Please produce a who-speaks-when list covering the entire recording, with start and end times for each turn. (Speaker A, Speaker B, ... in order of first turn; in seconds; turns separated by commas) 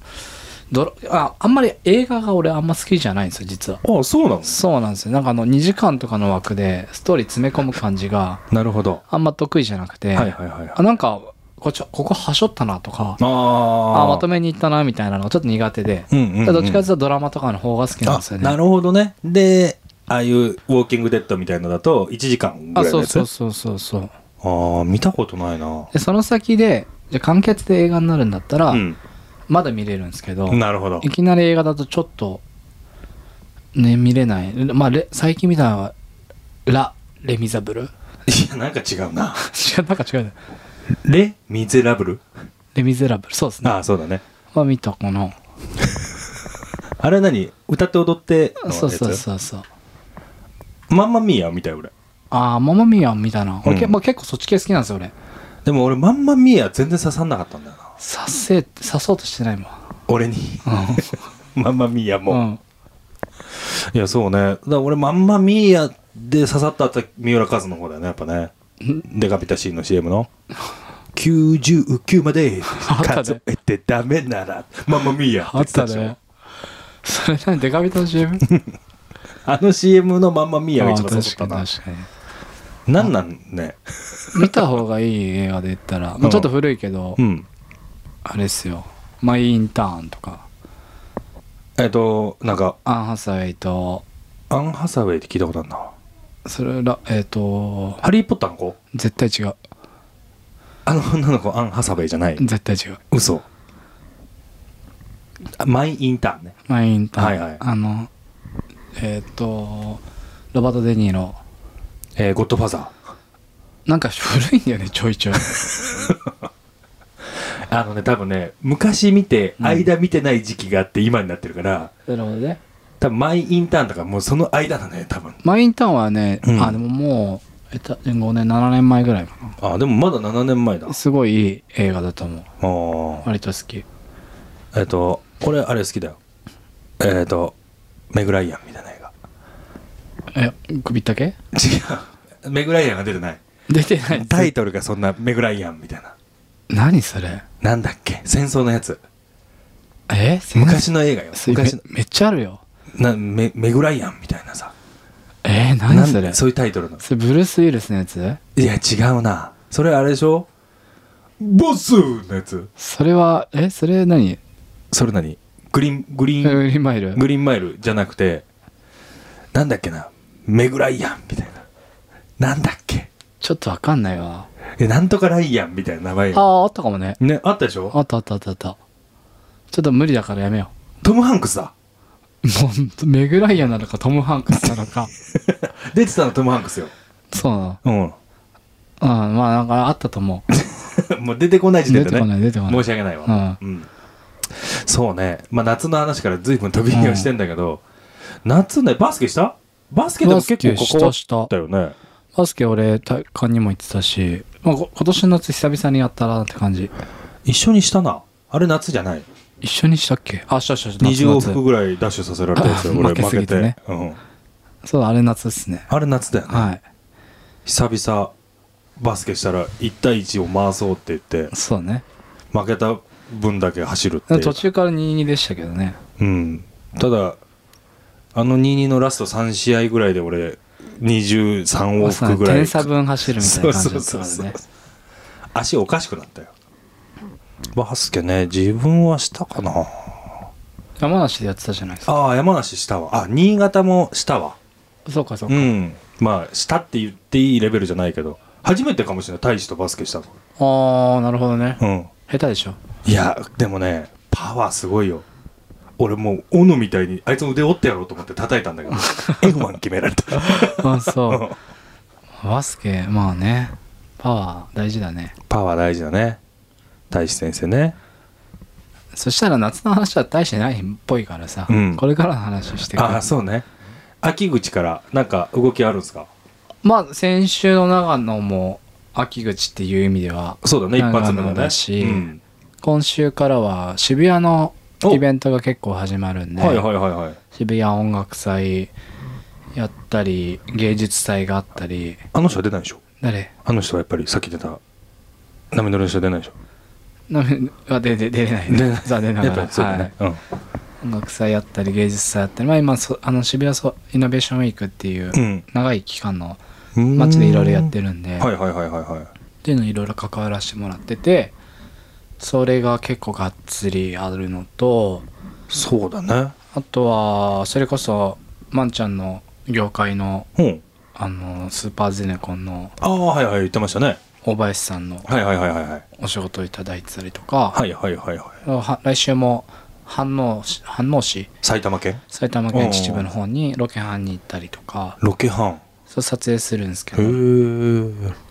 Speaker A: 0.7-3.8, Speaker B: 3.8-4.6, Speaker A: 4.4-8.4, Speaker B: 8.5-9.0, Speaker A: 9.1-13.2, Speaker B: 10.1-10.8, Speaker B: 13.2-14.2, Speaker A: 13.9-18.6, Speaker B: 16.1-16.9, Speaker B: 18.0-23.3, Speaker A: 22.7-24.1, Speaker B: 24.4-25.9, Speaker A: 25.9-28.8, Speaker B: 28.7-29.0, Speaker A: 29.5-32.4, Speaker B: 30.5-31.1, Speaker A: 33.7-35.9, Speaker A: 36.6-37.9, Speaker B: 38.2-39.4, Speaker A: 39.4-40.4, Speaker B: 40.9-42.2, Speaker A: 42.7-43.7, Speaker B: 43.6-44.2, Speaker A: 44.5-45.4, Speaker B: 45.8-46.1, Speaker B: 47.0-49.2, Speaker A: 48.6-49.6, Speaker B: 50.9-51.9, Speaker A: 52.3-55.1, Speaker B: 53.6-53.9, Speaker B: 55.6-57.9, Speaker A: 58.0-59.8, Speaker B: 60.1-62.4, Speaker A: 60.6-61.2, Speaker A: 62.3-62.6, Speaker B: 63.5-68.5, Speaker B: 69.0-70.3, Speaker B: 71.1-76.1, Speaker A: 72.7-73.4, Speaker A: 75.4-76.2, Speaker A: 77.0-78.5, Speaker B: 79.4-81.6, Speaker A: 80.8-82.1, Speaker B: 82.9-84.6, Speaker A: 84.3-87.2, Speaker B: 86.2-86.5, Speaker B: 87.2-87.5, Speaker A: 88.2-90.5, Speaker B: 91.8-92.8, Speaker A: 92.8-94.0, Speaker B: 94.5-95.9, Speaker A: 96.4-98.0, Speaker B: 98.0-98.8, Speaker A: 98.9-99.6, Speaker B: 100.8-102.4, Speaker A: 102.4-103.0, Speaker B: 103.1-103.4, Speaker B: 105.6-106.5, Speaker A: 106.7-108.1, Speaker B: 107.2-107.6, Speaker A: 109.0-110.0, Speaker A: 110.5-111.4, Speaker B: 112.2-112.9, Speaker A: 113.9-115.5, Speaker B: 115.8-116.3, Speaker B: 117.7-121.9, Speaker A: 119.6-119.9, Speaker A: 122.1-122.6, Speaker B: 123.0-125.4, Speaker A: 125.4-129.6, Speaker B: 126.4-126.8, Speaker B: 129.6-130.9, Speaker A: 130.9-132.5, Speaker B: 132.6-133.2, Speaker A: 133.2-133.8, Speaker B: 134.7-136.2, Speaker B: 137.0-137.5, Speaker B: 138.1-139.1, Speaker A: 140.3-141.3, Speaker B: 141.5-143.4, Speaker A: 143.7-144.5, Speaker B: 144.1-146.1, Speaker A: 146.7-147.4, Speaker B: 147.6-149.0, Speaker A: 150.1-152.6, Speaker B: 150.5-151.8, Speaker B: 152.9-154.7, Speaker A: 155.4-156.4, Speaker B: 155.9-157.0, Speaker A: 157.0-158.4, Speaker B: 158.6-160.5, Speaker B: 161.4-162.7, Speaker A: 162.8-164.4, Speaker B: 164.9-166.6, Speaker A: 166.4-167.2, Speaker B: 167.1-168.4, Speaker B: 169.5-171.6, Speaker B: 172.4-173.1, Speaker A: 173.4-174.5, Speaker B: 174.8-176.4, Speaker A: 176.3-177.2, Speaker B: 177.2-177.9, Speaker A: 177.9-178.8, Speaker A: 179.7-180.7, Speaker B: 181.0-181.7, Speaker A: 182.4-185.1, Speaker B: 184.6-186.9, Speaker A: 187.3-187.8, Speaker B: 187.8-188.1, Speaker A: 189.0-190.4, Speaker B: 190.5-193.9, Speaker A: 191.9-193.6, Speaker B: 194.5-197.8, Speaker A: 196.9-197.3, Speaker B: 198.4-201.9, Speaker A: 200.2-201.5, Speaker A: 202.3-206.9, Speaker B: 207.4-209.2, Speaker A: 209.6-211.6, Speaker B: 211.0-214.2, Speaker A: 212.6-213.8, Speaker A: 214.8-215.9, Speaker B: 215.9-216.7, Speaker A: 216.5-216.8, Speaker B: 217.7-218.3, Speaker B: 219.0-221.5, Speaker A: 221.5-222.0, Speaker B: 222.5-224.6, Speaker A: 224.3-226.0, Speaker B: 226.2-227.4, Speaker B: 228.3-234.6, Speaker A: 232.0-234.6, Speaker B: 235.5-236.5, Speaker B: 237.7-240.3, Speaker A: 241.0-242.1, Speaker B: 242.1-244.6, Speaker A: 245.1-245.7, Speaker B: 245.5-250.3, Speaker A: 250.6-252.8, Speaker B: 251.8-252.1, Speaker B: 253.0-255.2, Speaker B: 256.0-261.6, Speaker A: 258.9-259.5, Speaker A: 260.3-261.5, Speaker A: 262.4-265.3, Speaker B: 265.5-266.4, Speaker B: 267.1-268.0, Speaker A: 269.1-273.2, Speaker B: 271.7-272.0, Speaker B: 272.9-273.7, Speaker B: 274.2-276.3, Speaker A: 276.8-282.3, Speaker B: 280.6-282.4, Speaker A: 282.8-286.9, Speaker B: 286.6-287.4, Speaker A: 287.5-288.9, Speaker A: 289.7-292.2, Speaker B: 292.3-293.0, Speaker A: 293.2-293.5, Speaker B: 293.6-294.8, Speaker B: 295.7-296.5, Speaker A: 297.3-300.1, Speaker B: 298.7-300.4, Speaker A: 301.0-306.6, Speaker B: 305.3-305.6, Speaker B: 306.9-309.3, Speaker A: 307.1-308.5, Speaker A: 309.6-311.5, Speaker A: 312.4-315.2, Speaker B: 315.7-316.5, Speaker A: 316.7-320.5, Speaker B: 320.6-320.8, Speaker A: 321.1-322.9, Speaker B: 323.0-324.2, Speaker A: 324.4-325.3, Speaker B: 325.2-326.0, Speaker A: 326.2-327.8, Speaker B: 327.7-328.6, Speaker A: 328.6-331.5, Speaker B: 331.6-333.2, Speaker A: 332.3-335.2, Speaker B: 335.2-335.8, Speaker A: 336.1-337.4, Speaker B: 337.1-338.4